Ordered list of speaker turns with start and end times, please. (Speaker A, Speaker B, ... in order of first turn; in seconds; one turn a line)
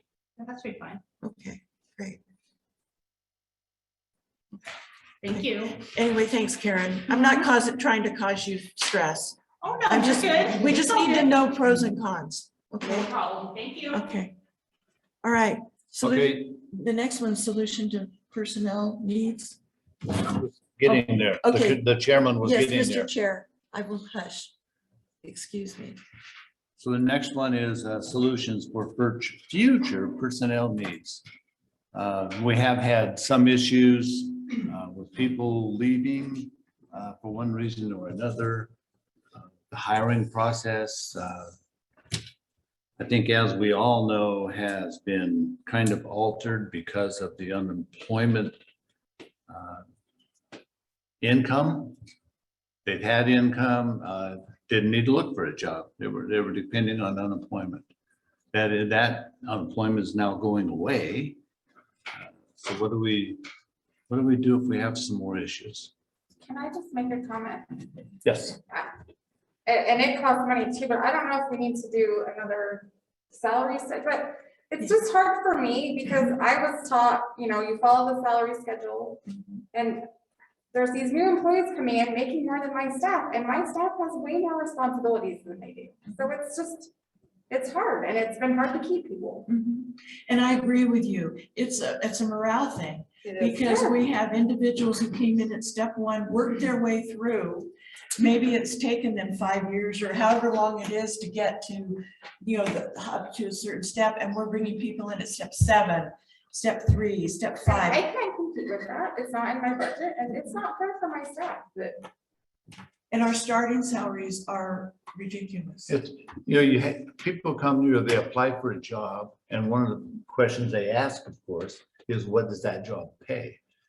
Speaker A: 0.4-1.0
Speaker B: 1.2-2.2
Speaker A: 5.2-5.8
Speaker B: 5.3-13.1
Speaker A: 7.1-7.5
Speaker A: 9.6-11.4
Speaker A: 12.8-14.0
Speaker B: 13.9-14.3
Speaker B: 15.2-19.6
Speaker C: 16.0-16.6
Speaker C: 20.2-23.1
Speaker B: 21.4-21.9
Speaker B: 22.4-24.5
Speaker B: 25.2-26.0
Speaker C: 26.8-31.2
Speaker C: 31.9-38.7
Speaker C: 39.3-41.5
Speaker C: 43.0-48.6
Speaker C: 49.5-49.8
Speaker C: 51.2-52.0
Speaker C: 52.8-57.9
Speaker C: 58.5-61.4
Speaker C: 62.1-63.4
Speaker C: 64.1-65.9
Speaker D: 66.4-67.9
Speaker C: 68.2-68.6
Speaker D: 68.7-68.9
Speaker D: 69.7-80.0
Speaker D: 80.7-86.9
Speaker D: 87.5-89.5
Speaker B: 89.5-108.0
Speaker D: 93.2-94.0
Speaker D: 107.6-112.0
Speaker B: 113.1-115.9
Speaker C: 115.9-123.6